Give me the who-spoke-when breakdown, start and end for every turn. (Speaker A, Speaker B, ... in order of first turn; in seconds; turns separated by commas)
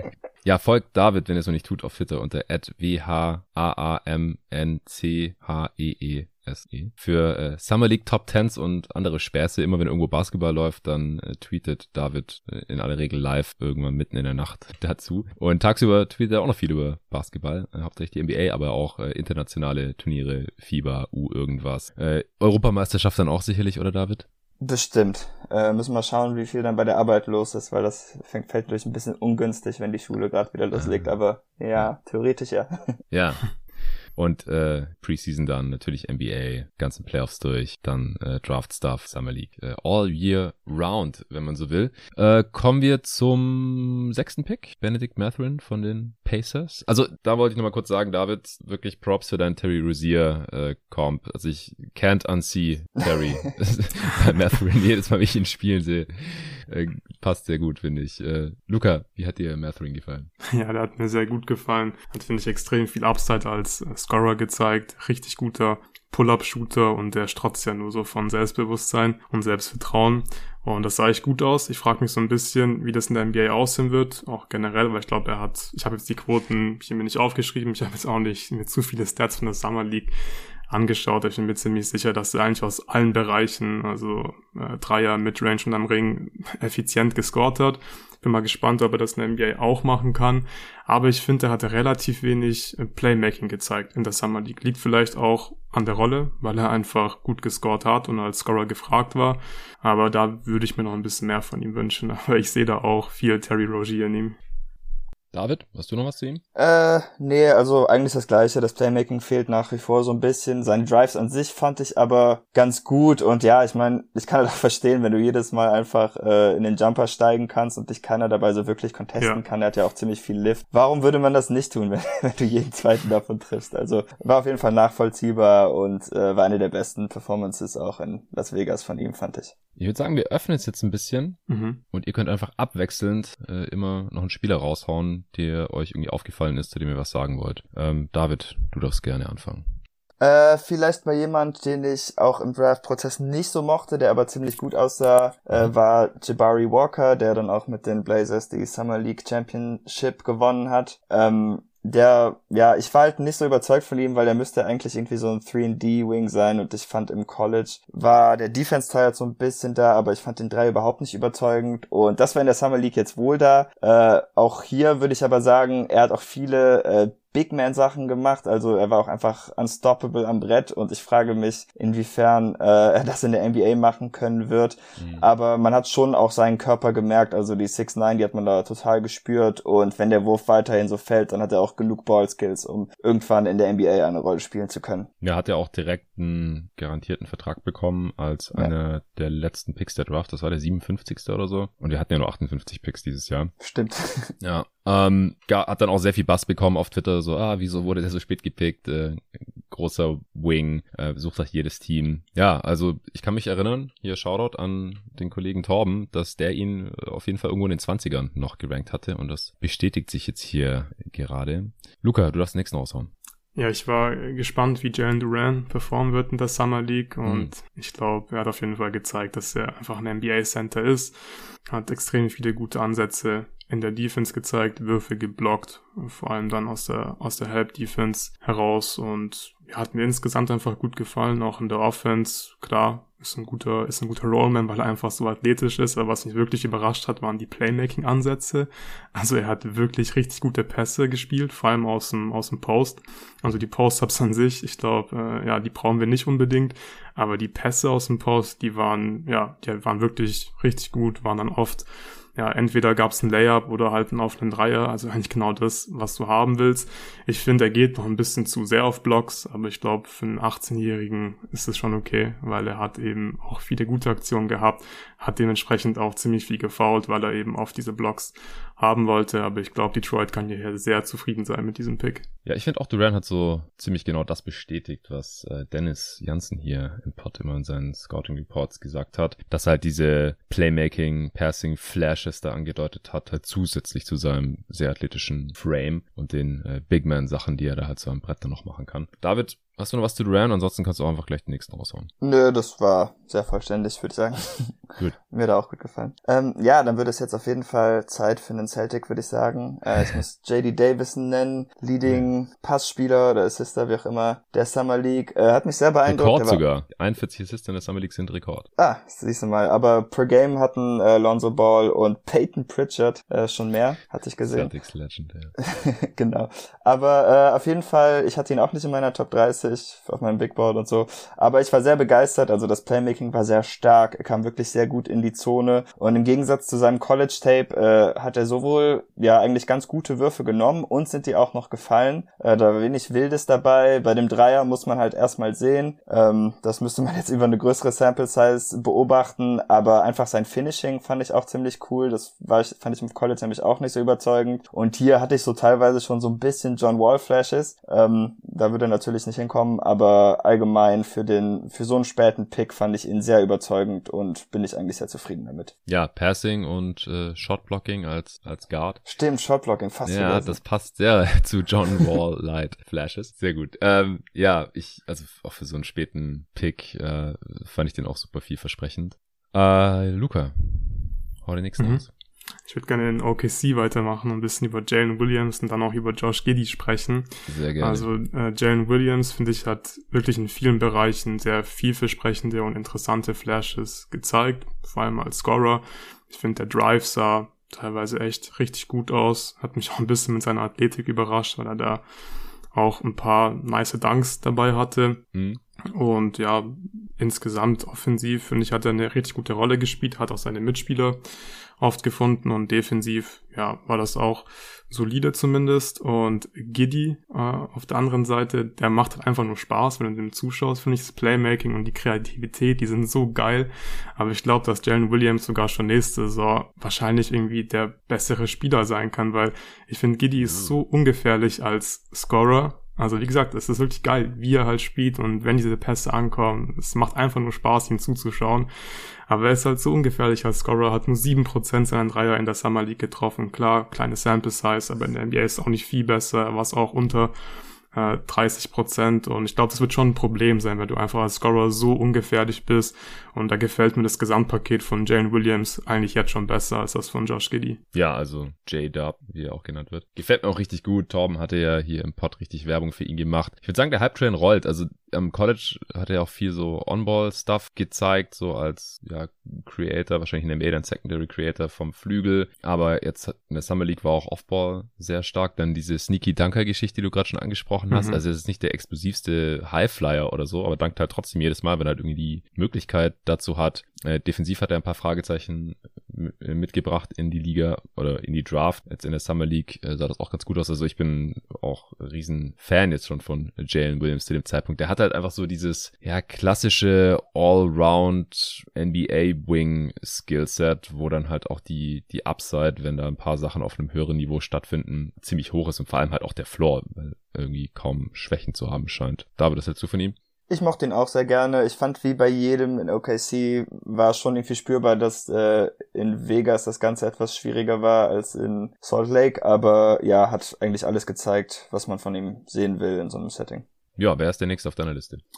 Speaker A: 0.4-24.3, Speaker B: 24.6-33.0, Speaker A: 30.7-31.1, Speaker A: 33.1-33.5, Speaker A: 34.2-60.3, Speaker C: 60.5-80.1, Speaker C: 80.7-104.4, Speaker A: 105.3-106.4, Speaker B: 106.5-129.5, Speaker A: 129.8-131.4, Speaker C: 131.5-131.8, Speaker A: 131.9-139.6, Speaker B: 140.2-185.1, Speaker A: 175.0-175.2, Speaker A: 185.2-193.5, Speaker B: 193.6-194.3, Speaker A: 194.4-213.1, Speaker C: 213.6-221.2, Speaker A: 217.2-217.5, Speaker C: 221.7-272.3, Speaker A: 272.4-292.1, Speaker B: 292.2-294.8, Speaker B: 295.3-306.6, Speaker A: 306.1-308.7, Speaker B: 308.8-314.7, Speaker A: 314.5-315.6, Speaker B: 315.6-355.7, Speaker A: 355.9-359.0, Speaker B: 359.1-360.6, Speaker A: 360.1-372.1, Speaker C: 371.8-372.1, Speaker C: 372.6-392.0, Speaker A: 377.5-378.1, Speaker C: 392.7-395.2, Speaker A: 395.3-395.6, Speaker C: 395.9-401.2, Speaker C: 401.8-428.7, Speaker A: 420.4-420.7, Speaker C: 429.3-437.3, Speaker C: 437.9-447.8, Speaker A: 447.9-500.2, Speaker C: 467.9-468.2, Speaker B: 500.5-513.6, Speaker A: 514.0-515.2